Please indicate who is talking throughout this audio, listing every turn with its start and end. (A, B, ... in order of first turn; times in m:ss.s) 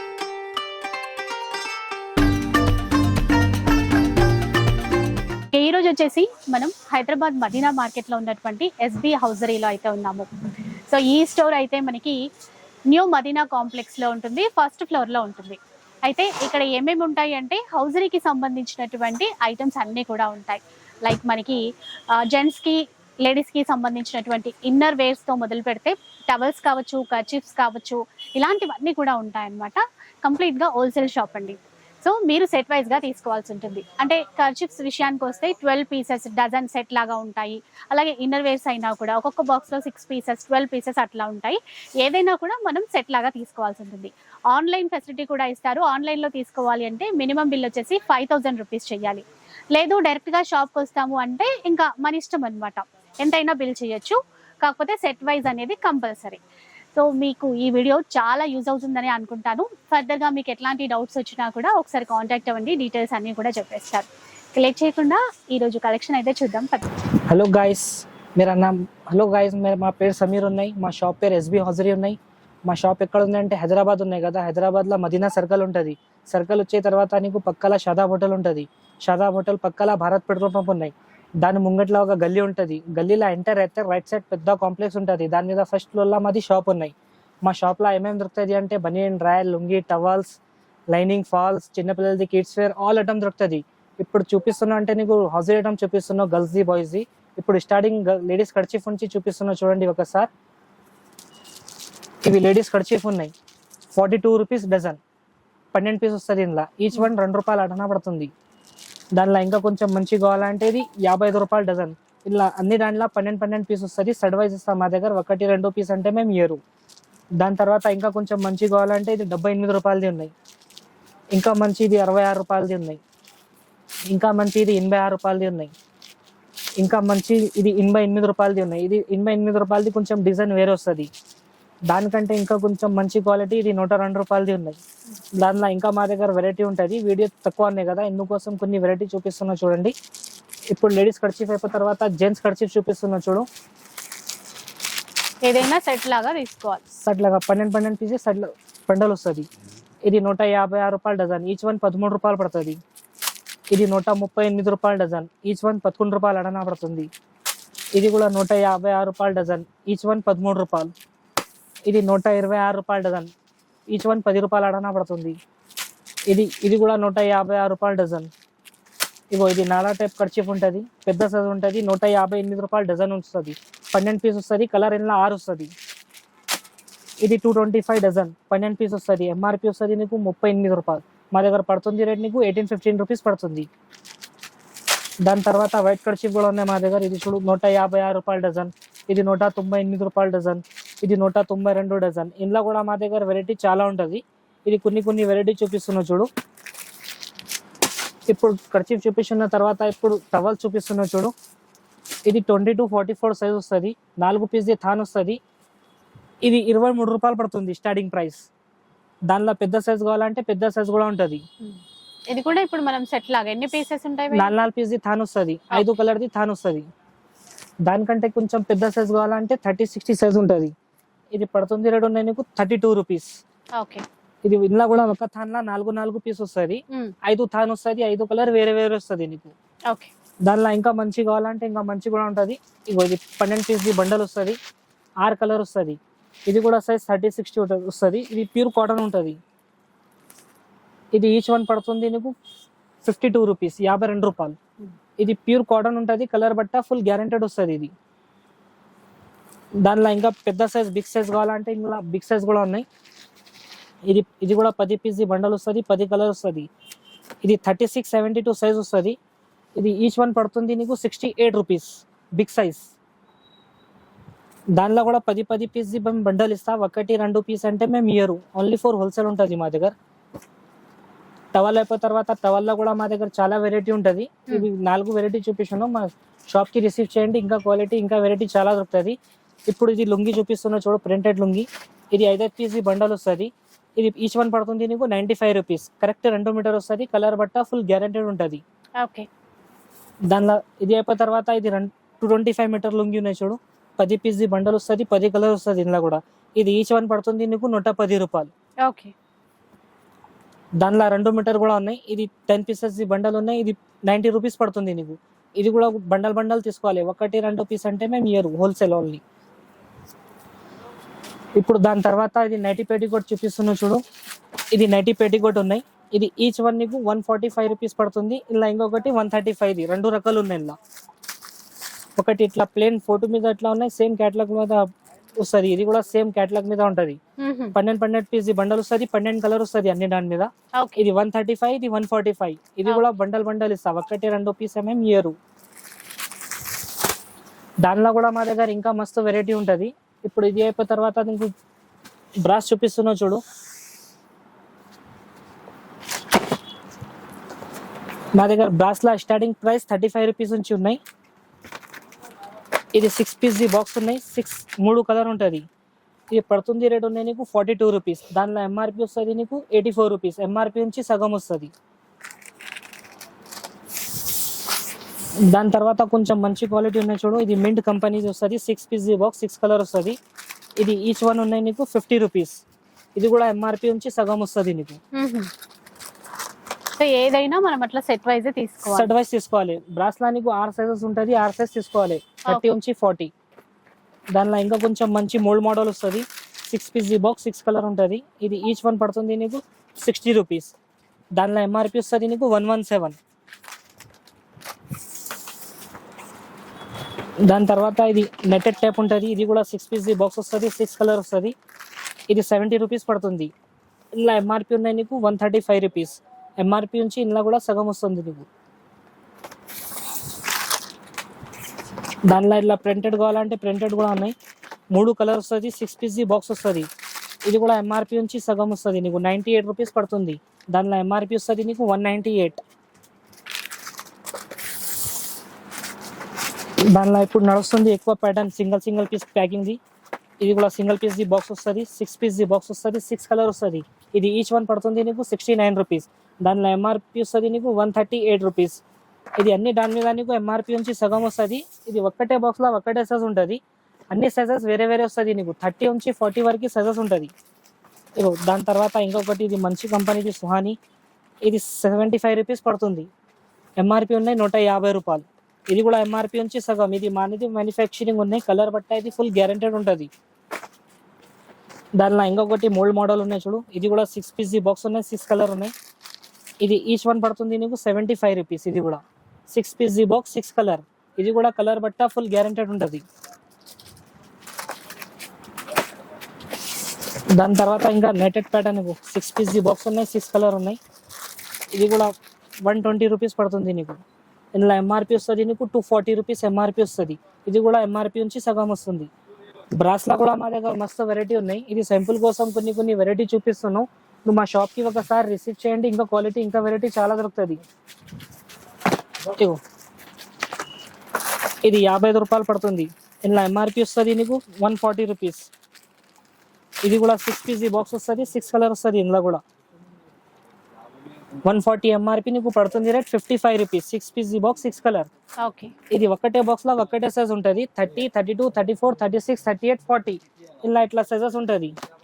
0:05.5-0:10.3 A
0:10.9-0:12.2 A
0:12.9-0:56.4 A
0:56.9-1:06.9 A
1:07.3-1:30.4 B
1:30.9-1:40.3 B
1:42.2-1:43.3 B
1:43.9-1:45.0 B
1:45.7-1:48.3 B
1:49.1-1:56.6 B
1:57.4-2:00.3 B
2:01.3-2:03.0 B
2:04.1-2:05.7 B
2:06.8-2:11.1 B
2:11.9-2:14.8 B
2:15.4-2:19.9 B
2:20.7-2:23.4 B
2:25.4-2:26.9 A
2:27.0-2:29.5 B
2:30.0-2:32.8 B
2:33.7-2:37.1 B
2:38.0-2:40.9 B
2:41.9-2:43.3 B
2:43.9-2:45.4 B
2:46.3-2:48.3 B
2:49.3-2:55.7 B
2:57.2-3:03.7 B
3:05.2-3:16.3 B
3:18.3-3:21.3 B
3:22.3-3:25.4 B
3:26.4-3:28.4 B
3:29.3-3:31.4 B
3:32.3-3:34.6 A
3:34.3-3:36.8 B
3:37.8-3:40.7 B
3:41.3-3:43.3 B
3:43.8-3:44.0 A
3:44.4-3:49.5 B
3:50.4-3:54.6 B
3:55.2-3:59.4 B
4:01.1-4:02.3 B
4:03.0-4:04.6 B
4:05.2-4:07.9 B
4:09.8-4:12.8 B
4:14.1-4:16.7 B
4:17.4-4:19.2 B
4:19.8-4:22.9 B
4:24.8-4:29.9 B
4:31.5-4:39.2 B
4:39.7-4:48.6 B
4:49.0-4:49.3 A
4:50.3-4:58.5 B
4:58.8-4:59.1 A
5:00.8-5:09.2 B
5:11.6-5:14.0 B
5:14.7-5:20.7 B
5:22.2-5:24.8 B
5:25.4-5:27.2 B
5:27.4-5:27.8 A
5:27.7-5:35.3 B
5:30.8-5:31.0 A
5:37.8-5:41.5 B
5:42.4-5:43.4 B
5:48.4-5:51.0 B
5:52.9-5:55.6 B
5:56.3-6:01.7 B
6:05.5-6:10.2 B
6:10.8-6:12.6 B
6:13.2-6:15.0 B
6:15.1-6:15.5 A
6:17.0-6:19.1 A
6:18.9-6:23.3 B
6:24.3-6:30.7 B
6:31.4-6:33.2 B
6:37.5-6:41.5 B
6:42.3-6:43.5 B
6:44.2-6:48.5 B
6:52.3-6:54.3 B
6:54.9-6:56.9 B
6:57.4-7:02.6 B
7:06.9-7:09.8 B
7:10.4-7:18.8 B
7:19.4-7:27.3 B
7:28.2-7:30.8 B
7:31.4-7:33.1 B
7:33.8-7:40.1 B
7:42.0-7:45.7 B
7:46.6-7:53.0 B
7:57.3-8:00.8 B
8:01.7-8:04.0 B
8:04.5-8:09.1 B
8:09.8-8:17.6 B
8:19.3-8:19.6 B
8:21.6-8:25.5 B
8:26.8-8:29.4 B
8:31.4-8:35.1 B
8:35.4-8:35.7 A
8:35.9-8:41.7 B